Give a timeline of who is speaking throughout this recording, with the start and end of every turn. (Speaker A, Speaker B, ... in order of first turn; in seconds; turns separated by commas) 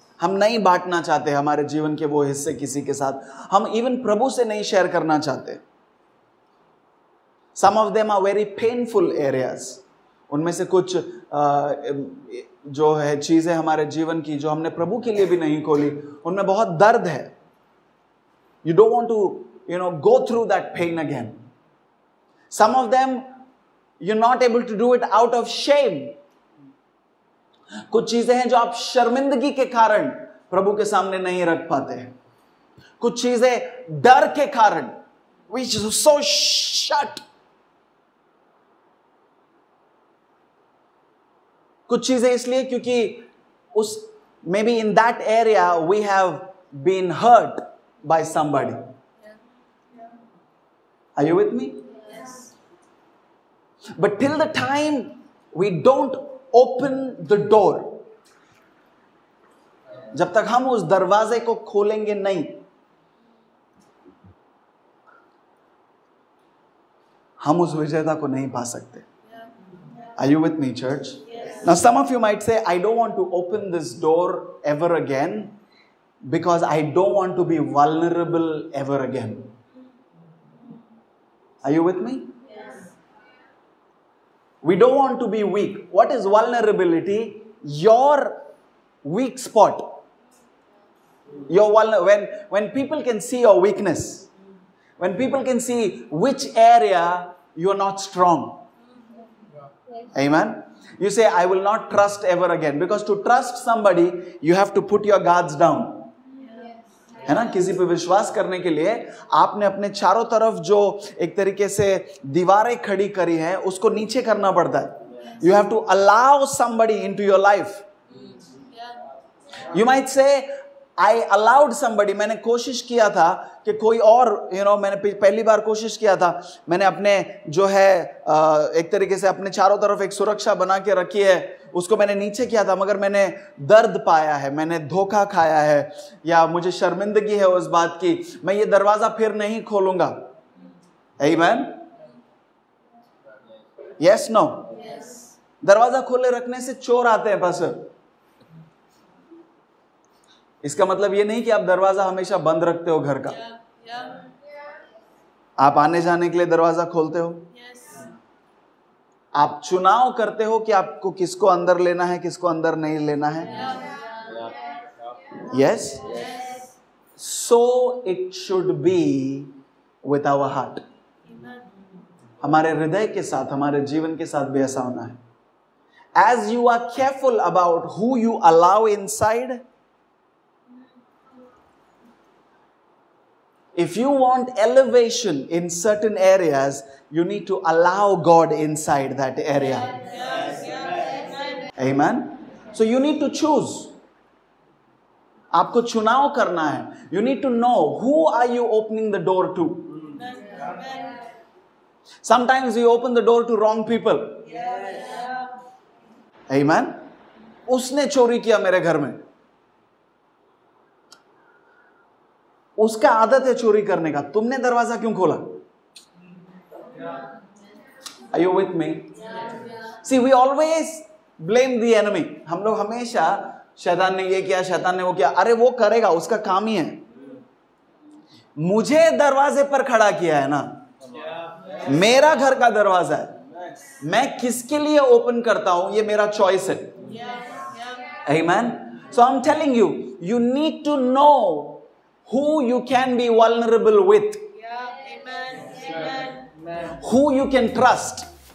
Speaker A: 0.2-5.6, Speaker A: 7.6-17.4, Speaker A: 18.6-21.4, Speaker A: 22.5-23.3, Speaker A: 24.0-26.2, Speaker A: 27.9-32.1, Speaker A: 33.0-34.9, Speaker A: 35.5-37.2, Speaker A: 41.9-48.9, Speaker A: 51.2-52.0, Speaker A: 54.0-58.1, Speaker A: 60.1-62.6, Speaker A: 67.4-69.1, Speaker A: 70.2-75.6, Speaker A: 76.2-79.5, Speaker A: 81.6-82.4, Speaker A: 84.6-88.4, Speaker A: 89.0-90.0, Speaker A: 91.5-94.3, Speaker A: 95.0-98.6, Speaker A: 100.1-106.1, Speaker A: 107.2-117.8, Speaker A: 119.6-140.3, Speaker A: 141.2-141.9, Speaker A: 144.0-144.8, Speaker A: 145.6-147.9, Speaker A: 150.6-153.4, Speaker B: 153.7-154.3, Speaker A: 155.6-157.5, Speaker A: 159.3-163.7, Speaker A: 165.4-166.2, Speaker A: 167.2-170.8, Speaker A: 172.4-175.2, Speaker A: 176.2-179.6, Speaker A: 183.8-190.3, Speaker B: 190.4-191.2, Speaker A: 191.8-194.0, Speaker A: 195.5-200.2, Speaker B: 200.4-201.2, Speaker A: 202.2-204.8, Speaker B: 204.8-205.3, Speaker A: 206.5-207.1, Speaker A: 207.7-209.2, Speaker A: 212.8-215.6, Speaker A: 218.3-219.2, Speaker A: 219.9-227.0, Speaker A: 228.6-230.9, Speaker A: 231.7-233.4, Speaker A: 234.0-237.0, Speaker B: 237.4-237.7, Speaker A: 238.2-244.5, Speaker B: 244.8-246.5, Speaker A: 246.8-248.3